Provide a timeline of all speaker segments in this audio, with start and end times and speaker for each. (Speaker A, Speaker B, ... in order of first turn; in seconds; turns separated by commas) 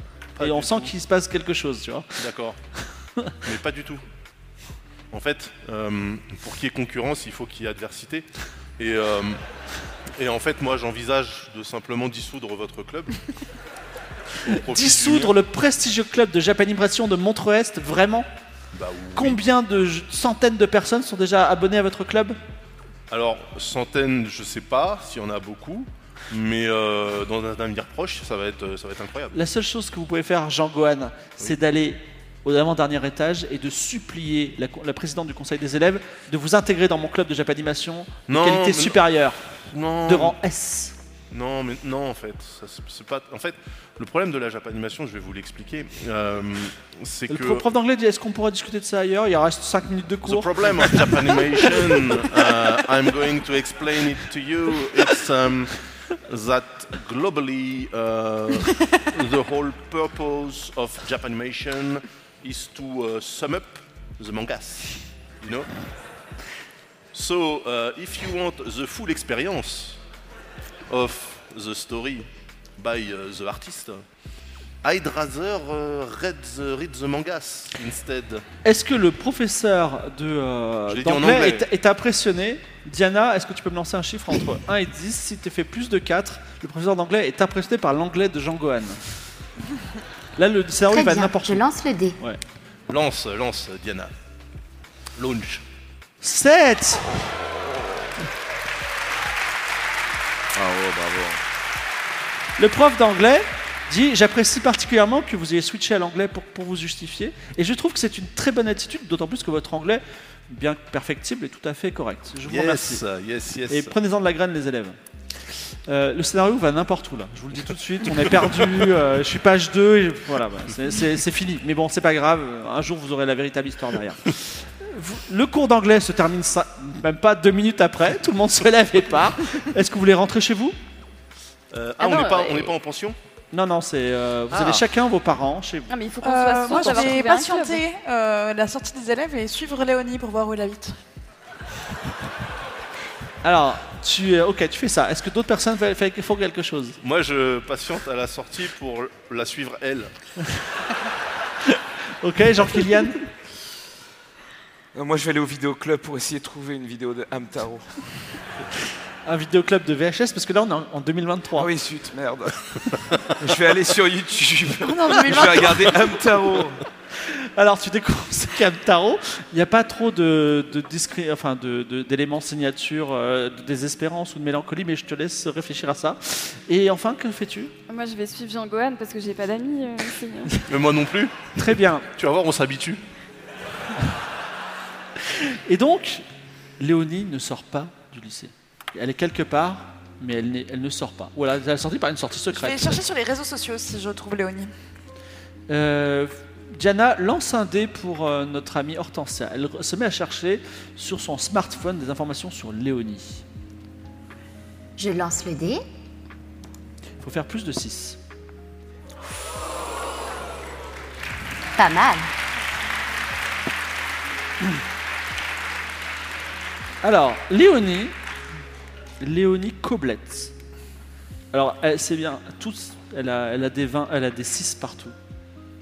Speaker A: 0.4-0.9, Speaker B: 0.4-2.2, Speaker A: 2.2-2.6, Speaker A: 3.5-4.0, Speaker A: 5.1-9.4, Speaker A: 10.2-13.2, Speaker A: 14.4-15.3, Speaker B: 14.5-18.3, Speaker A: 18.7-19.4, Speaker B: 19.2-22.4, Speaker A: 23.1-29.4, Speaker B: 29.3-39.4, Speaker A: 38.3-39.0, Speaker A: 39.7-40.4, Speaker B: 40.1-41.0, Speaker A: 41.3-47.6, Speaker B: 47.3-52.3, Speaker A: 50.2-65.7, Speaker A: 67.1-70.0, Speaker A: 70.9-74.0, Speaker A: 74.8-78.5, Speaker B: 78.6-89.0, Speaker A: 80.9-81.7, Speaker B: 90.4-91.7, Speaker C: 90.9-92.2, Speaker A: 92.9-94.1, Speaker A: 95.2-95.6, Speaker B: 96.2-97.2, Speaker D: 100.5-101.4, Speaker B: 102.6-113.0, Speaker A: 112.5-113.9, Speaker B: 113.7-115.0, Speaker B: 115.9-130.8, Speaker A: 131.7-133.2, Speaker E: 132.0-132.7, Speaker B: 133.5-135.9, Speaker A: 134.5-134.8, Speaker E: 135.9-137.8, Speaker F: 136.2-141.0, Speaker B: 136.7-137.2, Speaker B: 143.4-147.0, Speaker A: 147.0-150.1, Speaker B: 151.7-153.2, Speaker D: 154.9-157.9, Speaker B: 159.2-161.7, Speaker D: 161.6-162.6, Speaker D: 163.4-166.8, Speaker F: 164.8-166.1, Speaker B: 167.2-177.7, Speaker E: 177.9-180.5, Speaker A: 180.7-181.5, Speaker B: 181.6-182.1, Speaker A: 182.1-183.0, Speaker B: 185.2-186.2, Speaker B: 186.8-193.0, Speaker F: 192.5-194.7, Speaker B: 195.7-203.4, Speaker C: 205.0-205.8, Speaker B: 207.2-208.2, Speaker C: 211.8-212.3, Speaker B: 217.0-218.1, Speaker B: 219.2-220.5, Speaker B: 221.5-225.2